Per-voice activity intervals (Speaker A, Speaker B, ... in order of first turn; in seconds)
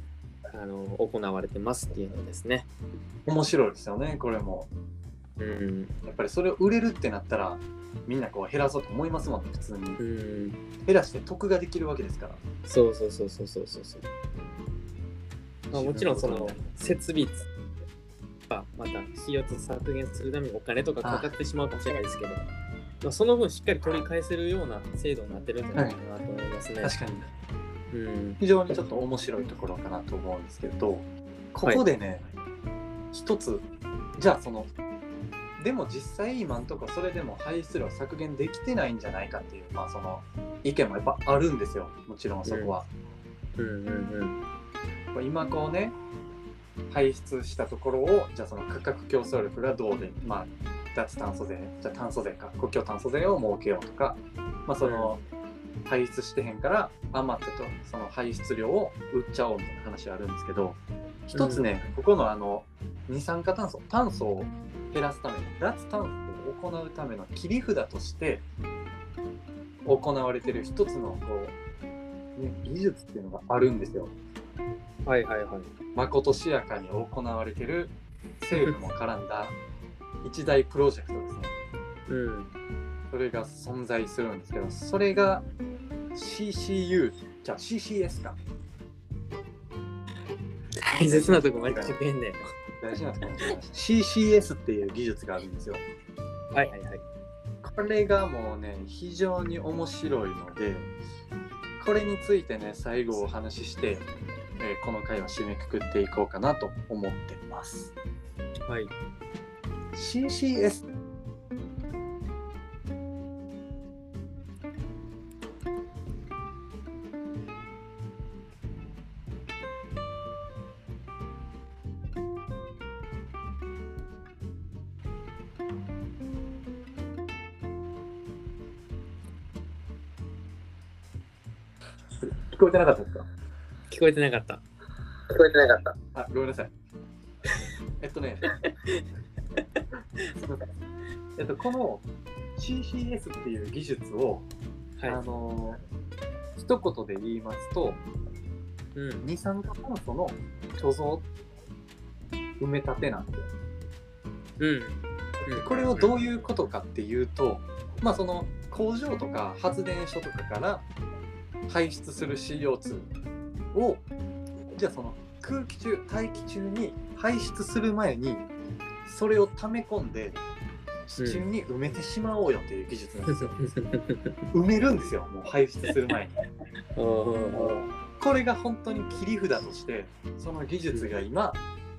Speaker A: 0.5-2.7, 5.4-5.9, 10.0-10.6, 12.6-14.0, 15.7-17.5, 18.5-22.4, 23.0-26.9, 27.9-28.4, 42.4-42.7, 43.6-44.4, 54.8-55.1, 61.3-61.6, 75.0-75.7, 82.1-82.5, 90.8-92.5, 96.5-97.0, 133.9-134.6, 135.4-135.9, 138.4-139.0, 139.7-140.3, 148.9-149.2, 154.6-156.2, 171.2-171.4, 173.3-174.4, 176.9-177.8
Speaker B: 3.2-4.7, 6.0-10.0, 10.8-12.4, 15.7-16.6, 21.0-21.3, 26.8-27.3, 28.4-32.3, 33.1-33.6, 34.2-34.7, 35.6-42.9, 45.1-46.0, 46.9-55.2, 55.9-68.4, 69.8-71.5, 72.3-74.1, 75.9-79.6, 80.2-81.5, 83.1-85.5, 86.1-88.4, 91.0-92.0, 92.8-95.8, 97.6-100.9, 101.8-107.9, 109.9-110.8, 132.2-133.3, 136.1-136.7, 138.0-138.5, 140.3-140.6, 141.4-144.5, 145.1-145.8, 146.6-148.0, 149.2-151.3, 152.6-153.5, 155.5-160.9, 161.7-163.1, 163.7-164.0, 164.7-168.5, 169.0-170.4, 171.1-173.5, 174.5-176.4, 178.2-181.6